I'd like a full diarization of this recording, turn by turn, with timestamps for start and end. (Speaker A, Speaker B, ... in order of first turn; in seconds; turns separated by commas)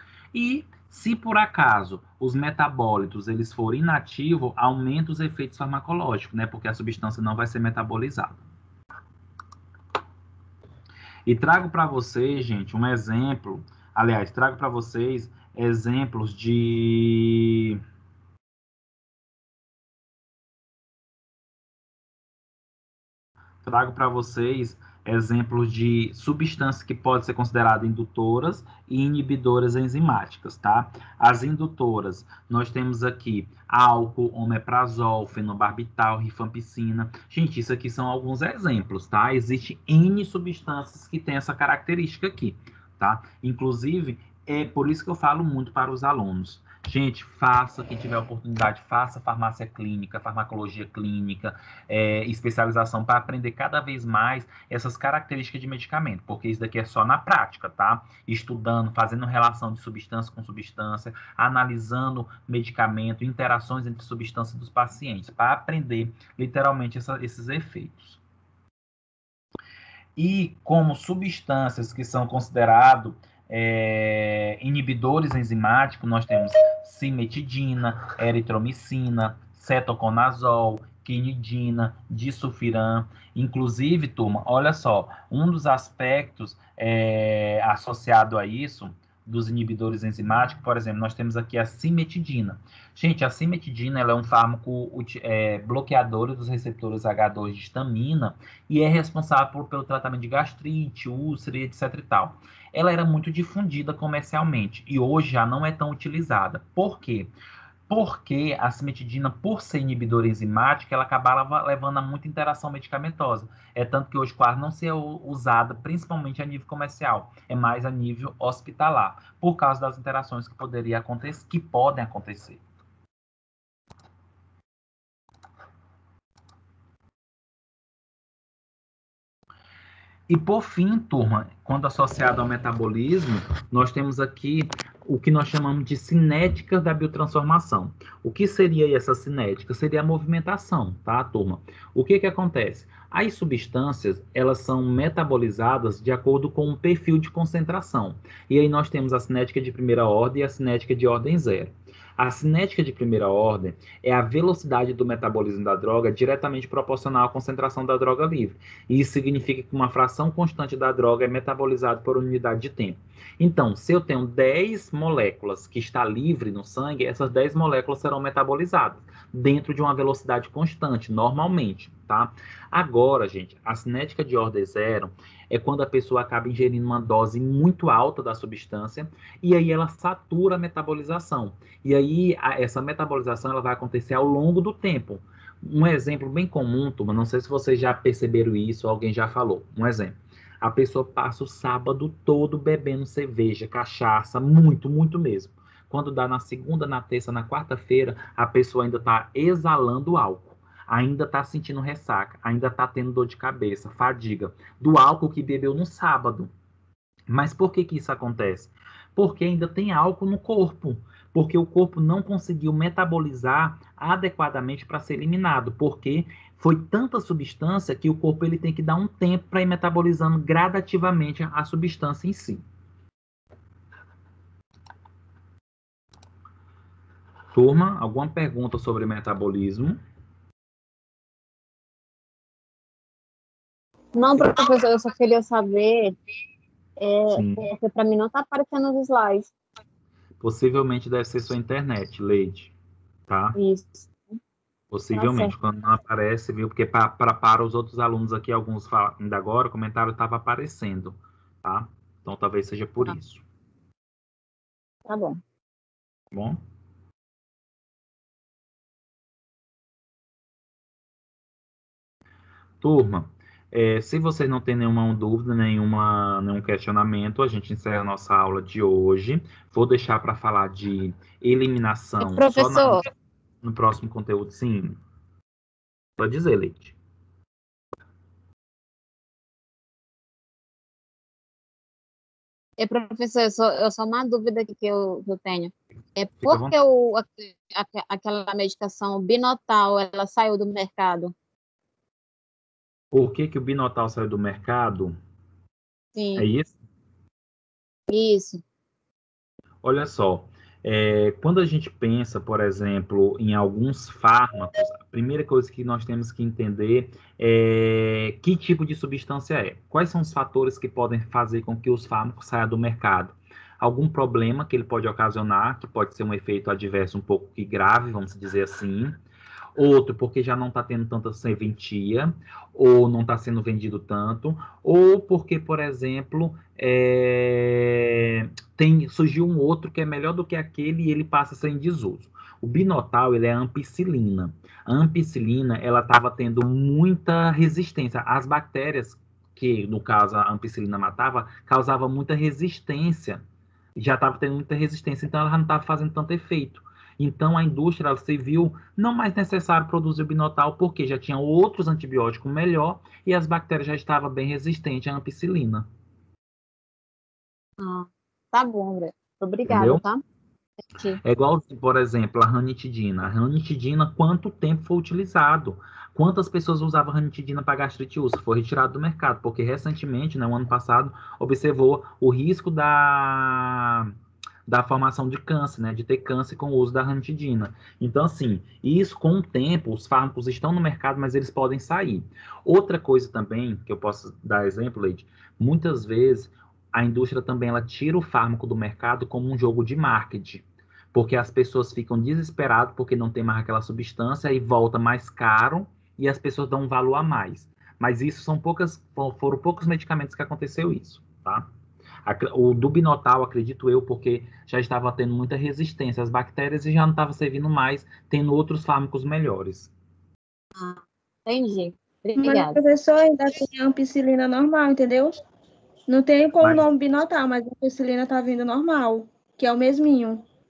Speaker A: 0.3-8.4, Speaker A: 11.2-17.8, Speaker A: 23.6-68.2, Speaker A: 70.2-107.3, Speaker A: 107.9-122.6, Speaker A: 130.3-206.5, Speaker A: 207.3-222.6, Speaker A: 227.5-230.0, Speaker B: 234.2-236.2, Speaker B: 237.0-239.5, Speaker A: 237.3-237.7, Speaker A: 240.4-242.7, Speaker A: 243.3-243.6, Speaker B: 243.6-244.3, Speaker A: 244.9-253.4, Speaker B: 245.1-245.5, Speaker B: 255.1-255.4, Speaker A: 256.3-256.6, Speaker A: 262.8-273.0, Speaker B: 272.2-273.0, Speaker A: 273.6-275.0, Speaker A: 276.2-276.9, Speaker B: 282.8-291.3, Speaker A: 286.4-286.8, Speaker A: 293.1-295.1, Speaker B: 296.1-296.4, Speaker A: 296.4-296.7, Speaker B: 298.1-298.6, Speaker A: 299.8-319.1, Speaker A: 319.8-343.4, Speaker A: 343.9-355.9, Speaker B: 357.8-360.2, Speaker A: 359.7-360.0, Speaker A: 361.2-374.1, Speaker A: 374.7-401.7, Speaker A: 402.2-409.9, Speaker B: 410.8-412.8, Speaker C: 412.4-415.3, Speaker C: 416.1-420.4